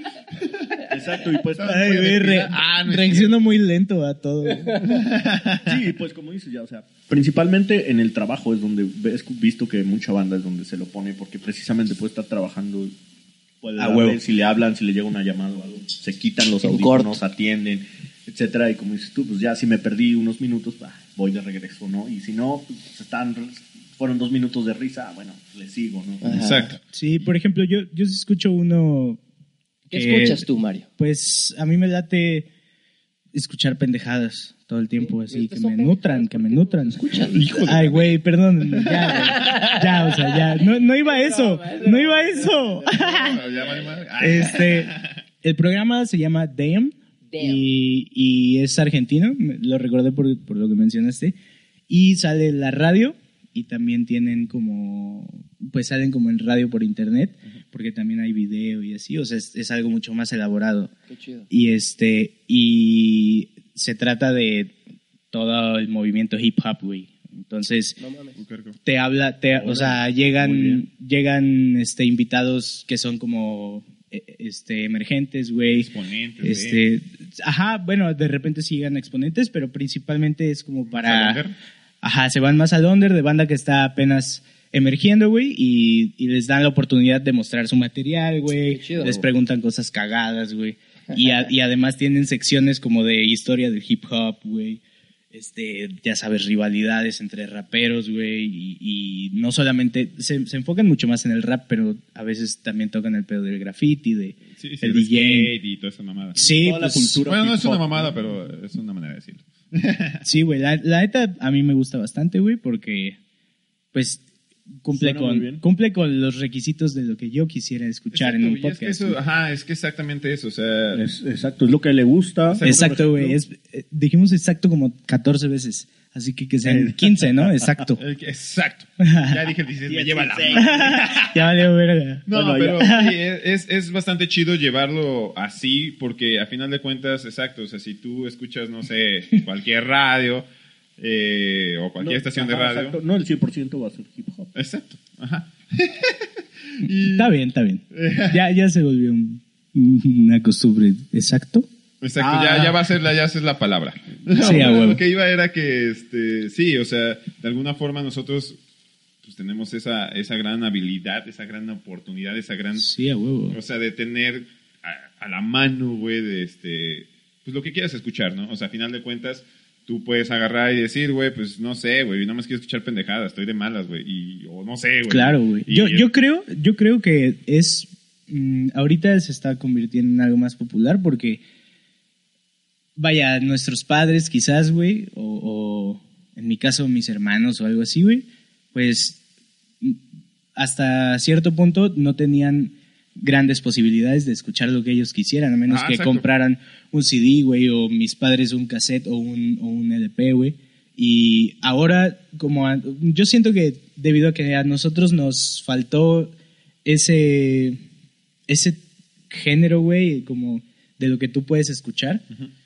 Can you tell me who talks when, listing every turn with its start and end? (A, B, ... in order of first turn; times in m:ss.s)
0:00.9-0:02.2 A
0:01.6-0:03.3 B
0:01.6-0:04.8 C
0:04.8-0:05.8 B
0:05.6-0:12.9 A
0:13.6-0:26.3 A
0:13.8-0:14.2 C
0:16.6-0:17.2 D
0:26.2-0:26.7 D
0:26.2-0:26.8 B
0:26.9-0:29.2 C
0:29.9-0:30.4 C
0:29.9-0:30.8 D
0:31.0-0:32.5 C
0:33.3-0:43.4 C
0:35.0-0:37.4 D
0:37.2-0:38.2 B
0:38.7-0:39.1 B
0:39.1-0:43.9 D
0:43.0-0:45.1 B
0:44.2-0:51.4 C
0:47.3-0:47.6 D
0:51.9-1:00.9 C
1:01.1-1:01.5 D
1:01.5-1:04.7 C
1:05.3-1:08.0 C
1:08.0-1:08.4 D
1:08.4-1:08.8 B
1:08.8-1:15.9 C
1:09.5-1:10.8 A
1:15.7-1:16.8 B
1:16.4-1:21.4 C
1:20.9-1:21.5 B
1:22.0-1:34.8 C
1:28.7-1:29.2 D
1:35.3-1:45.5 C
1:44.5-1:46.4 B
1:46.4-1:47.2 C
1:46.4-1:48.2 A
1:47.3-1:50.2 B
1:50.2-1:53.2 C
1:53.9-1:54.2 C
1:54.8-1:59.2 C
1:54.9-1:55.6 A
1:58.1-2:01.0 B
2:00.9-2:03.4 A
2:02.5-2:02.8 B
2:02.6-2:08.0 C
2:06.6-2:07.8 A
2:08.0-2:11.4 B
2:09.0-2:09.4 C
2:09.9-2:11.0 A
2:10.5-2:12.2 C
2:12.3-2:23.0 B
2:12.3-2:12.9 A
2:12.8-2:13.1 C
2:22.0-2:24.5 A
2:24.5-2:27.3 B
2:26.8-2:31.7 C
2:27.9-2:28.4 B
2:32.0-2:38.6 B
2:32.2-2:32.8 A
2:34.4-2:35.0 C
2:39.2-2:42.8 B
2:42.8-2:43.6 C
2:43.5-2:56.0 B
2:55.1-3:01.4 C
3:03.0-3:09.2 C
3:10.5-3:26.3 C
3:15.7-3:16.2 B
3:26.8-3:27.8 C
3:28.5-3:32.2 C